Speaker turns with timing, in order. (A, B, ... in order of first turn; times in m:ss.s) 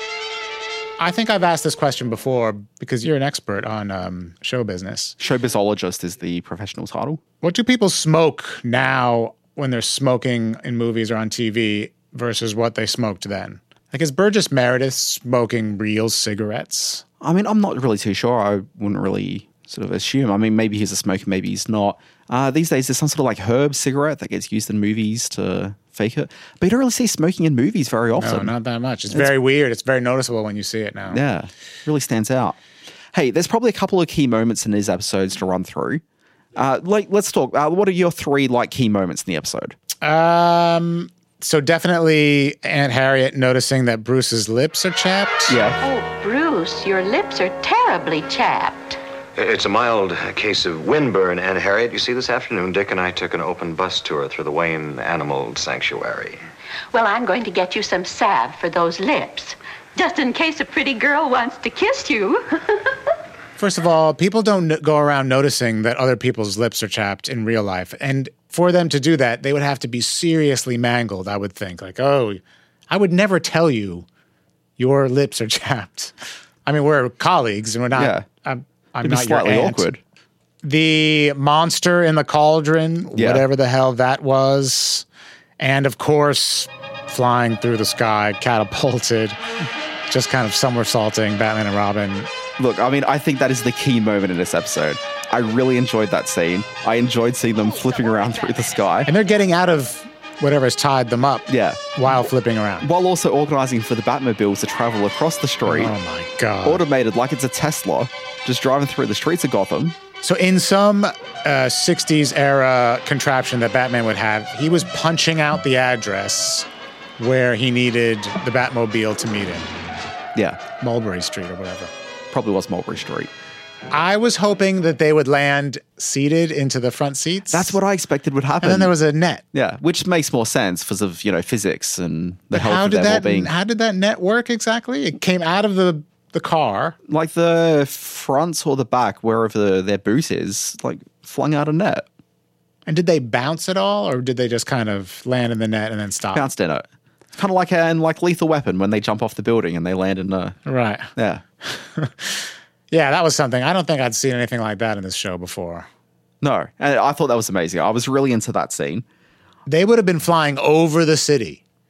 0:01.0-0:05.1 A
0:05.2-0:07.2 B
0:07.4-0:17.0 A
0:17.2-0:28.5 B
0:28.2-0:31.2 A
0:31.1-0:32.6 B
0:33.1-0:36.0 B
0:36.6-0:39.8 B
0:40.0-0:45.6 A
0:45.5-0:45.8 B
0:45.8-0:49.0 C
0:49.4-0:56.4 D
0:56.9-1:02.9 C
1:03.6-1:14.0 A
1:14.8-1:16.1 A
1:16.6-1:19.8 A
1:17.9-1:18.2 B
1:19.0-1:20.0 B
1:20.6-1:25.0 A
1:23.1-1:23.4 B
1:25.6-1:29.4 A
1:30.1-1:32.3 A
1:32.6-1:39.1 B
1:39.0-1:42.9 A
1:41.5-1:41.9 B
1:42.8-1:45.9 B
1:45.6-1:46.8 A
1:46.6-1:50.0 B
1:50.2-1:56.7 A
1:57.2-1:59.7 A
2:00.3-2:00.6 B
2:00.8-2:01.9 A
2:02.3-2:03.3 B
2:03.9-2:07.8 A
2:07.5-2:08.9 B
2:08.6-2:09.4 A
2:09.5-2:13.5 B
2:12.5-2:17.0 A
2:17.1-2:22.0 B
2:22.9-2:26.4 A
2:26.3-2:30.6 B
2:30.6-2:31.1 A
2:31.2-2:31.4 B
2:31.6-2:35.9 A
2:36.4-2:39.0 B
2:39.7-2:41.6 A